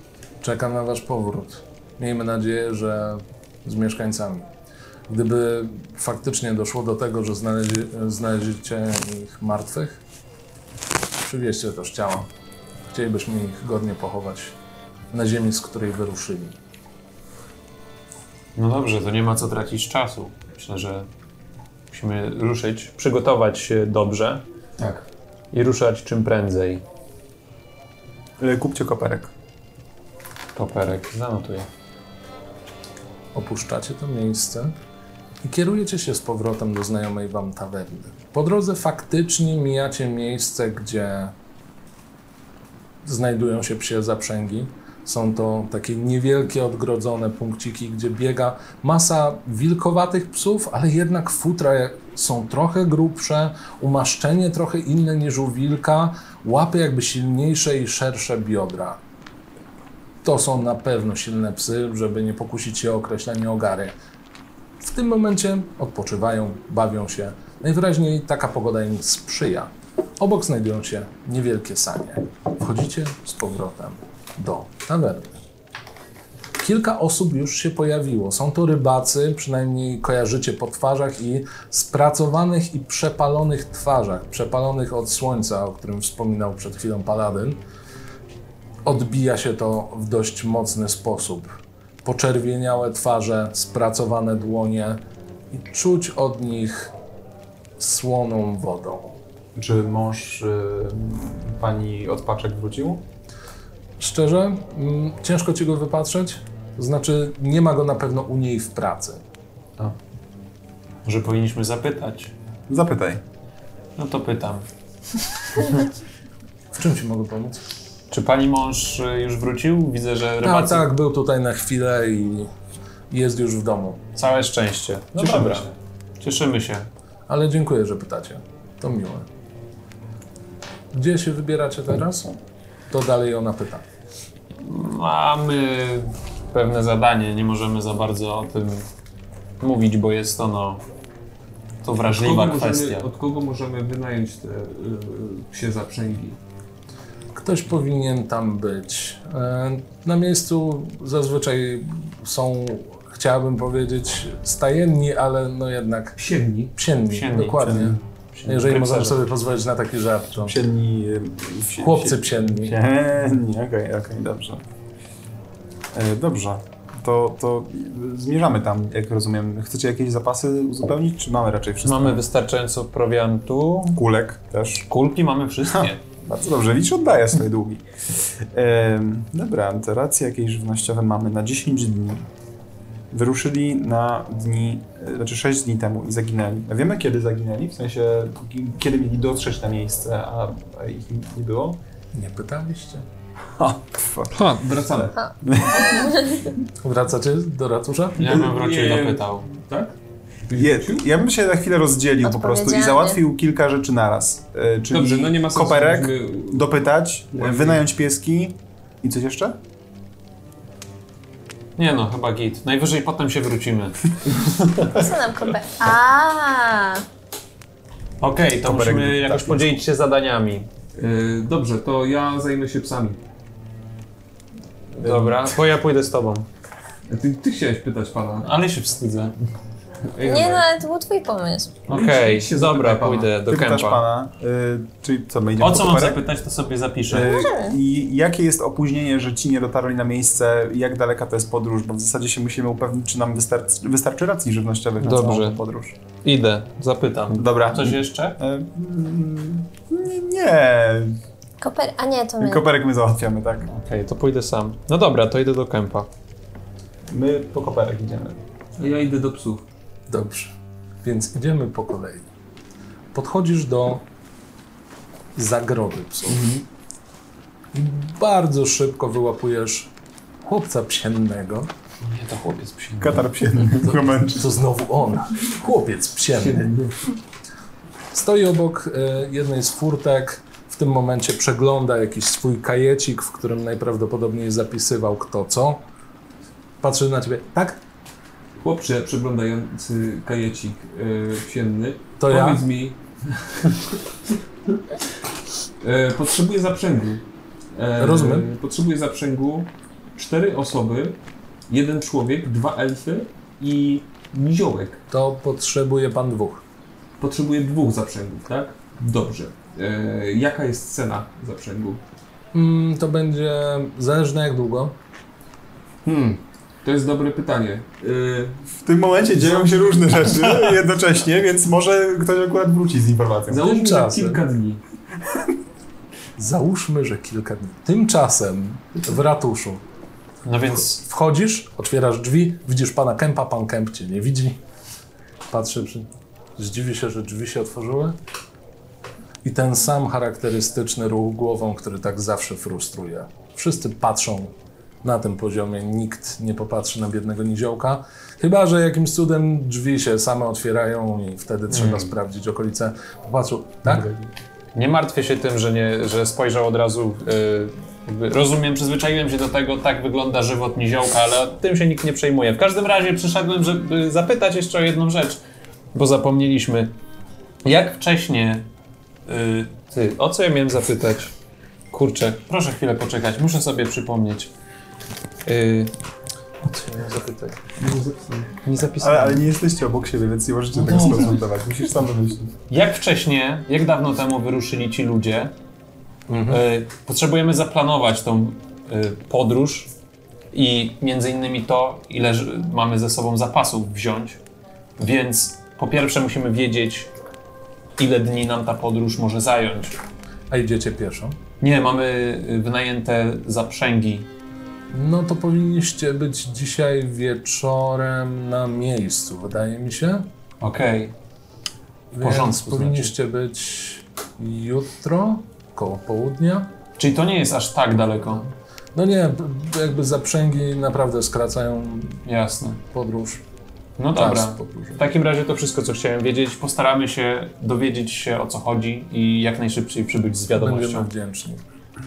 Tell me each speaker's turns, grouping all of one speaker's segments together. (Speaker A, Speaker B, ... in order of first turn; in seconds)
Speaker A: 0.4-4.5, 5.1-10.0, 11.2-12.3, 12.9-14.6, 15.1-16.5, 33.3-34.7, 35.4-41.3, 43.0-59.0, 60.2-63.9, 64.8-75.4, 76.6-87.6, 88.8-91.5, 92.0-96.9, 97.8-99.2, 104.0-109.2, 116.7-117.6, 120.4-122.5, 123.1-124.0, 127.3-129.2, 130.9-132.3, 132.9-133.8, 147.3-156.2, 156.7-160.6, 161.8-162.8, 192.1-193.1, 196.8-198.3, 260.1-262.2, 263.1-264.1, 265.3-266.5, 267.7-271.7, 273.9-276.7, 278.1-285.8, 286.8-287.8, 292.2-292.6, 298.0-298.5, 305.1-306.6, 312.5-314.9, 323.6-324.4, 326.4-329.8, 330.8-334.6, 335.5-338.2, 339.4-354.2, 376.6-377.6, 380.9-381.4, 386.3-386.6, 400.5-401.4, 404.9-410.3, 412.1-416.7, 418.9-422.2, 422.9-423.4, 424.1-425.0, 430.5-431.6
Speaker B: 18.6-21.1, 21.9-24.4, 25.5-26.8, 30.5-31.7, 111.0-112.3, 114.0-114.7, 115.5-115.8, 118.1-120.9, 124.2-125.7, 126.2-126.9, 134.6-138.8, 139.6-140.8, 141.8-143.1, 157.1-159.2, 171.8-174.0, 174.9-176.0, 198.2-199.5, 211.8-214.7, 218.2-220.7, 224.9-226.4, 228.4-229.3, 231.9-234.0, 235.6-237.3, 245.0-245.6, 246.2-248.4, 253.7-256.1, 272.0-273.3, 330.4-331.0, 351.7-352.1, 354.7-365.4, 365.9-366.9, 367.6-368.7, 369.2-371.3, 371.9-374.5, 375.4-375.9, 378.6-379.4, 380.9-381.2, 382.7-385.5, 386.5-389.9, 390.5-394.4, 395.0-397.1, 398.0-400.0, 401.6-404.3, 410.6-411.1, 412.2-413.1, 417.0-418.5, 422.2-422.8, 424.0-431.1
Speaker C: 28.4-29.3, 99.5-103.0, 112.7-113.2, 125.2-125.7, 160.4-164.6, 165.9-172.2, 173.9-174.9, 175.7-177.8, 178.4-182.3, 183.1-191.8, 193.6-196.5, 200.6-209.6, 218.6-219.8, 225.0-225.5, 233.5-236.2, 237.1-245.9, 247.3-251.2, 252.4-253.7, 257.1-258.4, 273.0-274.5, 318.8-323.7, 379.0-382.6
Speaker D: 142.1-146.4, 156.2-156.7, 194.3-195.2, 198.2-201.1, 204.9-207.9, 221.0-223.2, 227.1-228.5, 230.1-230.7, 231.9-233.3, 258.8-259.6, 266.3-266.6, 276.4-277.0, 288.5-294.0, 295.8-297.2, 297.7-301.2, 301.7-305.0, 307.2-312.0, 316.0-318.6, 323.5-324.8, 377.8-378.5
Speaker E: 195.8-196.4, 202.2-203.2, 214.9-217.0, 230.2-231.8, 237.2-237.8, 251.6-252.7